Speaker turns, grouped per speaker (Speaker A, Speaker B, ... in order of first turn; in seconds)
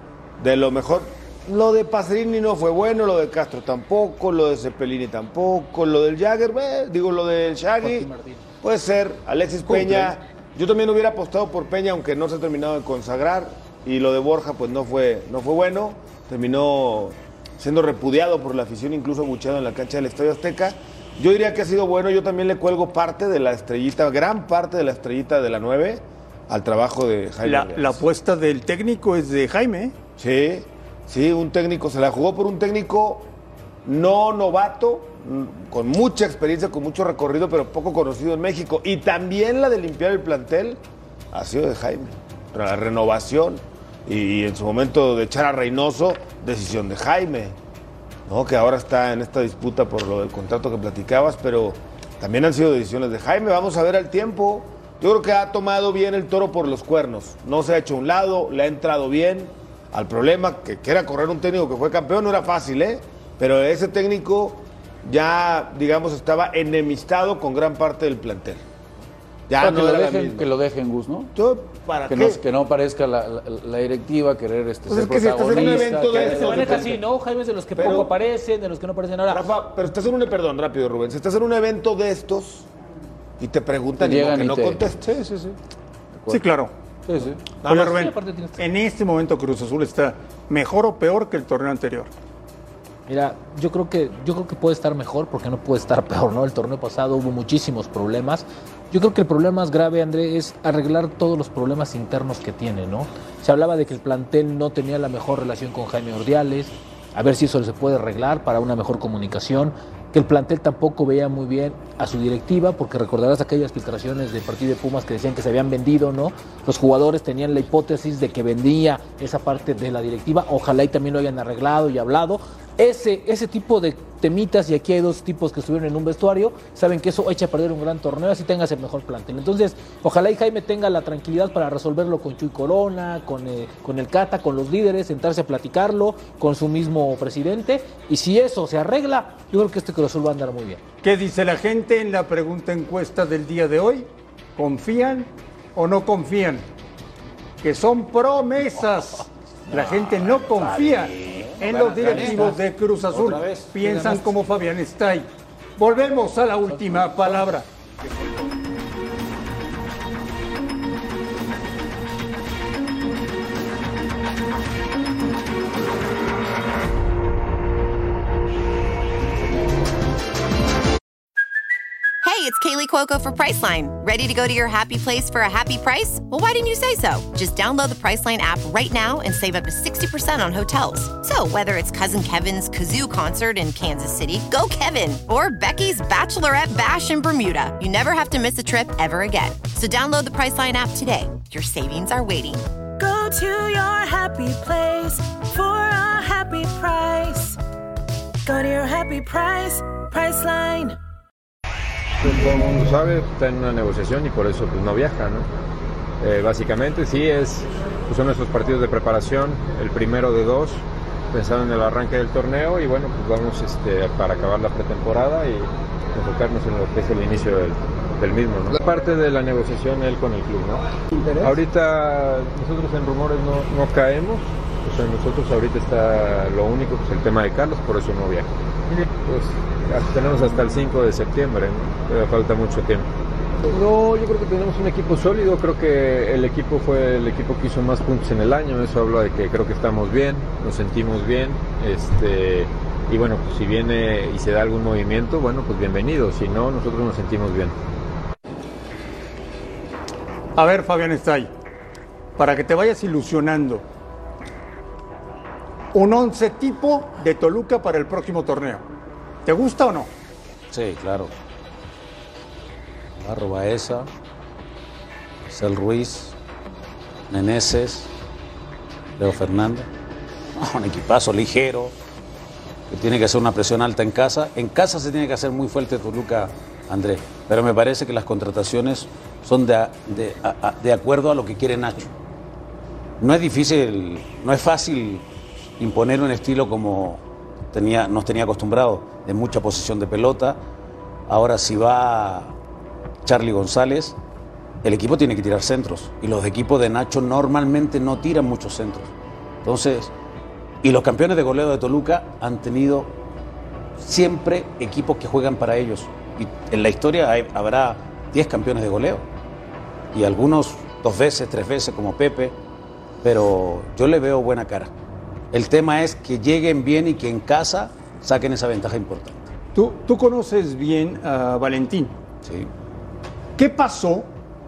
Speaker A: 0.4-8.1, 8.6-28.0, 30.2-33.3, 33.8-40.8, 41.3-47.6, 48.3-68.6, 69.5-70.5, 71.3-72.4, 74.9-77.0, 77.8-78.1, 79.3-82.7, 83.4-85.1, 87.7-88.0
Speaker B: 7.8-8.4, 75.5-79.4, 87.7-88.6, 93.1-140.8, 152.1-152.6, 153.9-154.2
Speaker C: 27.4-29.9, 86.3-86.7, 87.6-92.1, 141.0-146.7, 147.6-157.7, 250.5-251.5, 252.4-253.8, 255.9-258.8, 259.4-260.1, 319.7-322.1, 323.6-324.3
Speaker D: 69.6-71.3, 72.1-77.0, 84.0-85.5, 86.2-86.4, 87.1-87.5
Speaker E: 151.1-153.7, 260.7-261.3, 263.2-264.1, 265.5-266.3, 267.3-268.1, 269.2-269.9, 270.6-271.9, 272.9-282.1, 283.2-285.2, 285.8-290.6, 291.3-292.5, 293.2-294.2, 294.8-299.1, 299.6-300.1, 300.8-303.1, 304.0-309.2, 310.1-312.6, 313.2-314.9, 315.5-319.5, 322.4-322.7
Speaker F: 172.2-192.7
Speaker G: 193.0-197.6, 198.4-201.0
Speaker H: 202.2-205.5, 206.2-228.5, 229.2-233.1, 233.7-247.8